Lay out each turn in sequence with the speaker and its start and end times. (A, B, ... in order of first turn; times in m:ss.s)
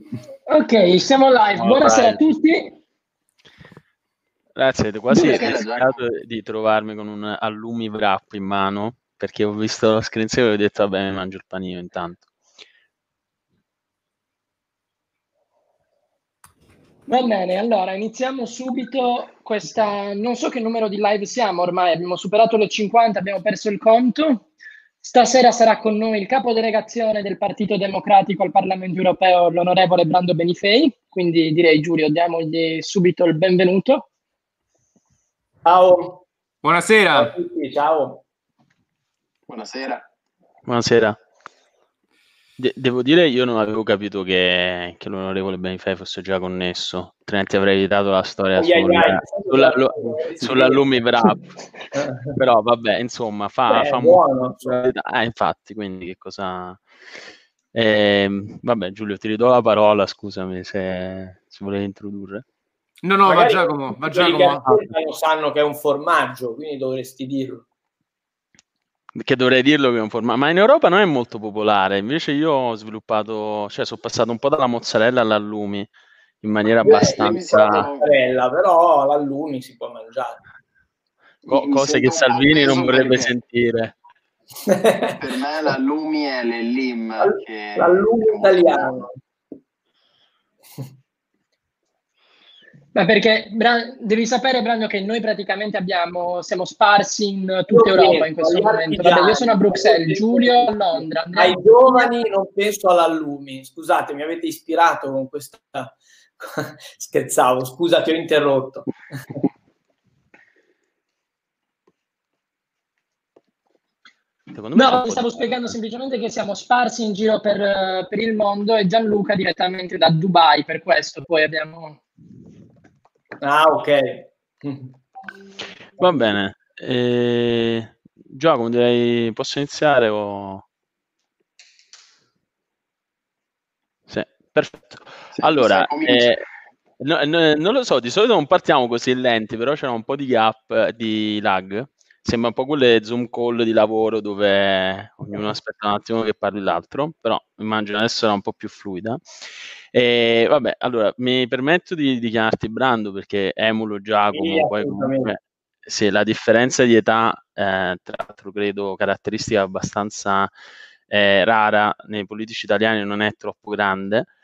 0:00.5-0:02.8 A
0:01.6-0:02.2 B
0:04.6-0:12.3 B
0:05.1-0:05.6 A
0:05.1-0:06.0 C
0:17.1-0:24.5 A
0:25.0-0:34.1 A
0:35.7-0:36.2 D
0:36.6-0:37.3 E
0:37.1-0:38.2 D
0:39.5-0:40.0 C
0:40.7-0:41.2 B
0:42.6-0:51.4 B
0:48.6-0:50.9 D
0:51.9-0:52.4 D
0:52.3-0:56.8 B
0:53.7-0:54.8 D
0:57.7-1:02.4 B
1:03.0-1:04.7 E
1:03.3-1:07.6 D
1:09.2-1:15.9 B
1:16.4-1:17.9 B
1:16.8-1:18.1 C
1:16.8-1:20.4 D
1:21.4-1:23.3 C
1:21.5-1:23.9 B
1:24.7-1:25.2 D
1:25.2-1:29.0 C
1:27.2-1:29.1 D
1:32.9-1:42.1 A
1:37.7-1:48.9 D
1:54.5-1:55.7 B
1:54.8-2:02.0 A
2:03.4-2:04.9 D
2:06.0-2:10.6 B
2:14.1-2:16.4 B
2:15.4-2:16.4 C
2:17.0-2:29.2 B
2:29.9-2:40.5 B
2:34.3-2:35.3 D
2:41.1-2:44.3 B